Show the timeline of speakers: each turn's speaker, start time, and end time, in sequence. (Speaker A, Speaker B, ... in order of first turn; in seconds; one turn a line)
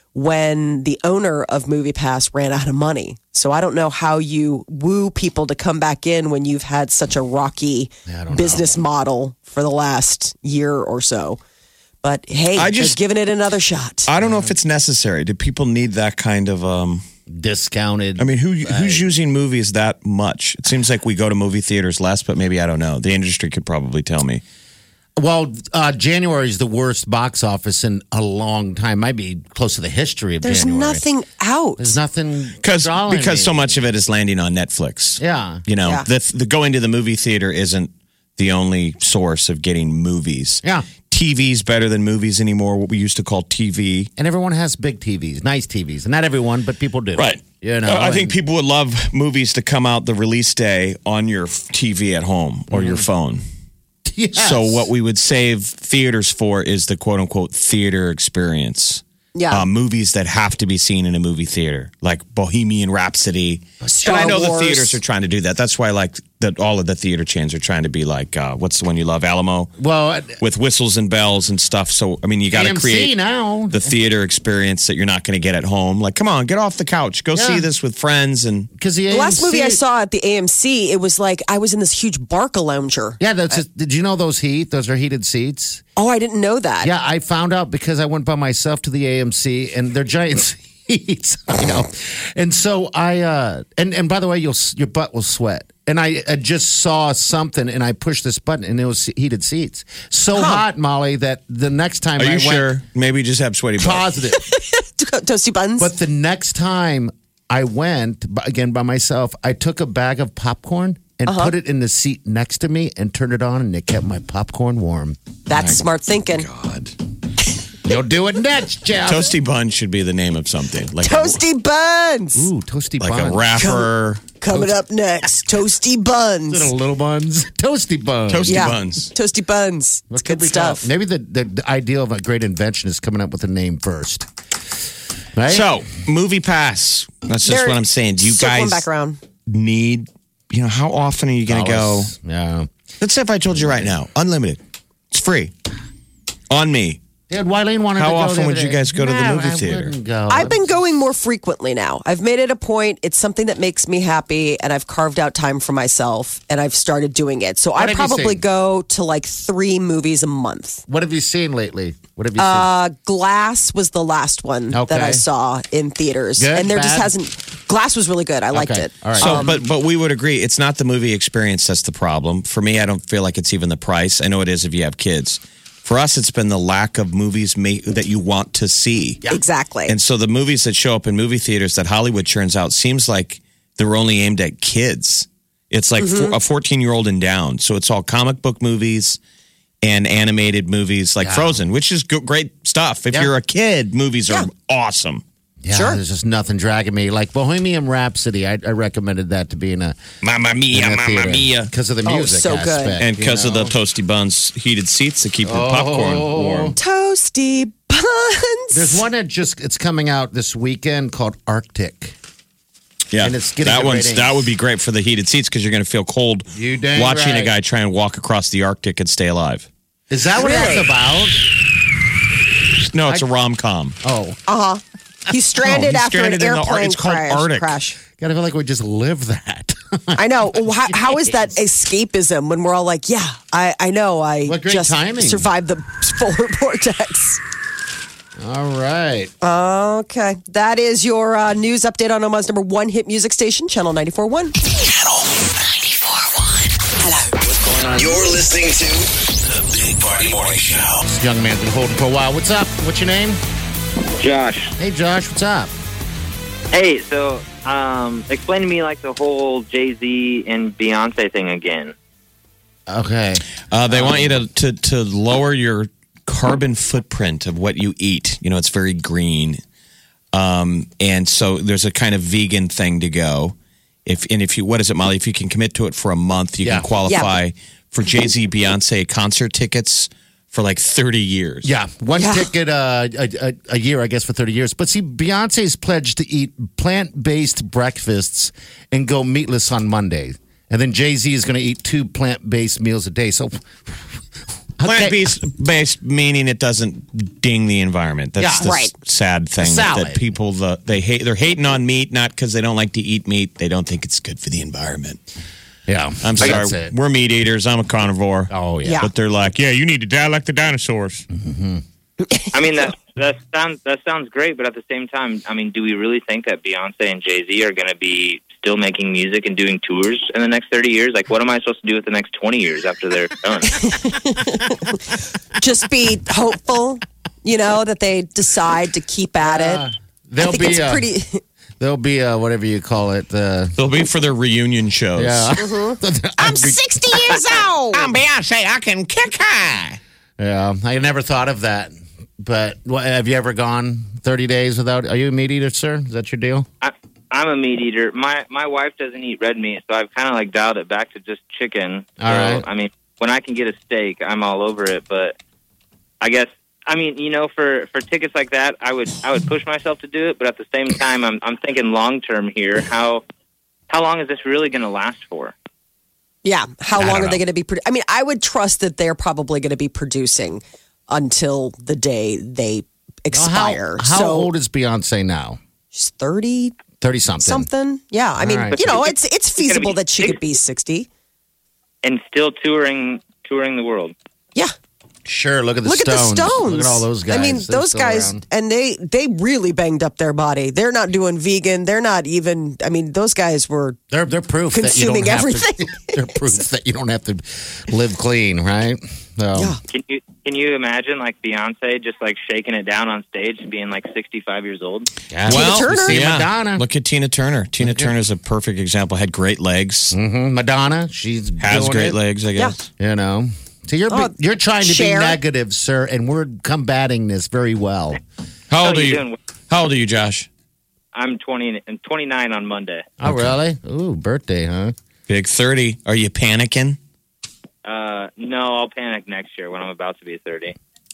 Speaker A: 0.1-11.4
Speaker B: 8.1-8.8
Speaker A: 12.0-14.1
Speaker C: 12.6-13.0
Speaker C: 14.1-17.0
Speaker B: 14.2-14.5
Speaker B: 17.3-19.1
Speaker C: 18.2-24.4
Speaker B: 25.2-31.0
Speaker A: 30.4-32.0
Speaker B: 31.8-33.8
Speaker C: 32.6-44.1
Speaker B: 35.2-35.6
Speaker B: 40.6-40.9
Speaker B: 44.2-48.4
Speaker C: 47.2-53.4
Speaker B: 52.7-53.1
Speaker B: 54.1-54.9
Speaker C: 54.4-69.7
Speaker A: 59.4-59.7
Speaker B: 63.8-64.4
Speaker A: 63.9-65.0
Speaker B: 69.8-70.4
Speaker C: 70.4-73.1
Speaker B: 72.5-73.9
Speaker C: 73.7-78.7
Speaker B: 77.3-77.7
Speaker B: 78.8-79.8
Speaker A: 79.1-83.2
Speaker B: 83.2-85.8
Speaker A: 86.0-86.9
Speaker B: 86.8-102.8
Speaker A: 100.3-100.6
Speaker C: 102.2-104.1
Speaker B: 103.8-104.4
Speaker A: 104.4-105.9
Speaker B: 105.8-115.2
Speaker A: 111.3-111.5
Speaker A: 115.5-116.5
Speaker C: 116.3-117.0
Speaker B: 117.8-119.3
Speaker C: 119.0-121.4
Speaker A: 121.0-122.5
Speaker B: 122.4-123.4
Speaker C: 123.0-124.3
Speaker A: 123.5-126.7
Speaker B: 126.5-128.7
Speaker C: 128.3-129.1
Speaker A: 128.5-130.9
Speaker B: 130.1-134.3
Speaker B: 135.3-135.7
Speaker C: 135.5-138.9
Speaker A: 137.4-139.2
Speaker C: 139.5-142.1
Speaker B: 141.5-142.7
Speaker C: 143.0-144.6
Speaker B: 143.5-143.9
Speaker C: 145.1-145.5
Speaker C: 146.5-147.0
Speaker B: 147.3-150.8
Speaker C: 148.0-149.9
Speaker A: 150.3-160.8
Speaker B: 157.8-158.4
Speaker B: 160.9-162.7
Speaker A: 162.4-169.6
Speaker B: 164.7-165.2
Speaker B: 166.4-167.1
Speaker B: 168.5-169.5
Speaker C: 169.2-179.2
Speaker A: 179.3-179.9
Speaker C: 179.9-189.2
Speaker A: 186.0-186.4
Speaker C: 189.8-195.2
Speaker B: 191.2-191.6
Speaker B: 195.6-200.0
Speaker A: 195.7-196.0
Speaker C: 200.2-201.7
Speaker B: 200.7-203.8
Speaker A: 202.1-203.0
Speaker C: 203.0-206.8
Speaker B: 205.4-206.8
Speaker A: 206.8-209.0
Speaker B: 208.7-212.2
Speaker C: 213.1-219.7
Speaker B: 213.2-214.4
Speaker B: 216.5-217.5
Speaker B: 220.1-221.6
Speaker A: 220.4-220.9
Speaker C: 222.9-224.0
Speaker B: 224.0-224.4
Speaker A: 224.5-228.0
Speaker C: 225.6-227.7
Speaker B: 228.2-231.3
Speaker A: 230.2-237.4
Speaker B: 234.4-235.5
Speaker B: 238.4-239.3
Speaker A: 239.4-244.6
Speaker D: 244.7-246.8
Speaker A: 247.0-247.4
Speaker D: 247.6-251.0
Speaker B: 251.0-253.4
Speaker E: 254.2-254.7
Speaker B: 254.8-255.7
Speaker E: 256.7-261.9
Speaker B: 262.9-264.4
Speaker C: 263.7-269.6
Speaker C: 270.3-273.6
Speaker C: 274.1-281.7
Speaker B: 276.6-276.9
Speaker A: 277.1-277.3
Speaker B: 281.6-294.2
Speaker A: 282.2-282.5
Speaker B: 294.8-295.3
Speaker C: 294.8-305.2
Speaker B: 298.4-298.7
Speaker A: 298.6-298.9
Speaker B: 299.6-300.2
Speaker B: 305.9-306.9
Speaker C: 306.2-311.3
Speaker B: 308.5-309.1
Speaker A: 308.8-309.1
Speaker B: 311.3-311.8
Speaker E: 312.5-323.9
Speaker A: 323.7-329.9
Speaker B: 329.4-331.1
Speaker A: 330.4-331.4
Speaker B: 331.8-333.8
Speaker C: 333.8-335.5
Speaker B: 335.2-337.4
Speaker A: 335.6-338.1
Speaker C: 337.9-340.0
Speaker B: 340.4-346.7
Speaker E: 346.8-355.4
Speaker B: 352.2-352.6
Speaker E: 356.2-363.2
Speaker E: 363.9-365.5
Speaker A: 366.4-374.5
Speaker B: 367.0-367.3
Speaker B: 373.3-375.6
Speaker A: 375.9-376.8
Speaker B: 377.0-377.7
Speaker A: 377.4-381.1
Speaker B: 378.4-379.0
Speaker E: 379.6-380.4
Speaker E: 382.0-384.1
Speaker B: 385.3-388.4
Speaker A: 385.9-394.0
Speaker B: 394.1-399.7
Speaker A: 394.7-396.6
Speaker A: 399.6-399.8
Speaker E: 399.9-405.1
Speaker B: 405.3-406.9
Speaker C: 405.5-410.1
Speaker A: 405.5-406.2
Speaker B: 407.8-408.1
Speaker B: 410.1-412.2
Speaker C: 411.6-412.9
Speaker B: 413.0-418.2
Speaker A: 414.1-415.4
Speaker C: 418.7-420.5
Speaker E: 418.8-419.4
Speaker E: 421.1-423.1
Speaker B: 423.2-424.9
Speaker C: 423.2-423.6
Speaker C: 425.3-427.0
Speaker E: 427.8-430.8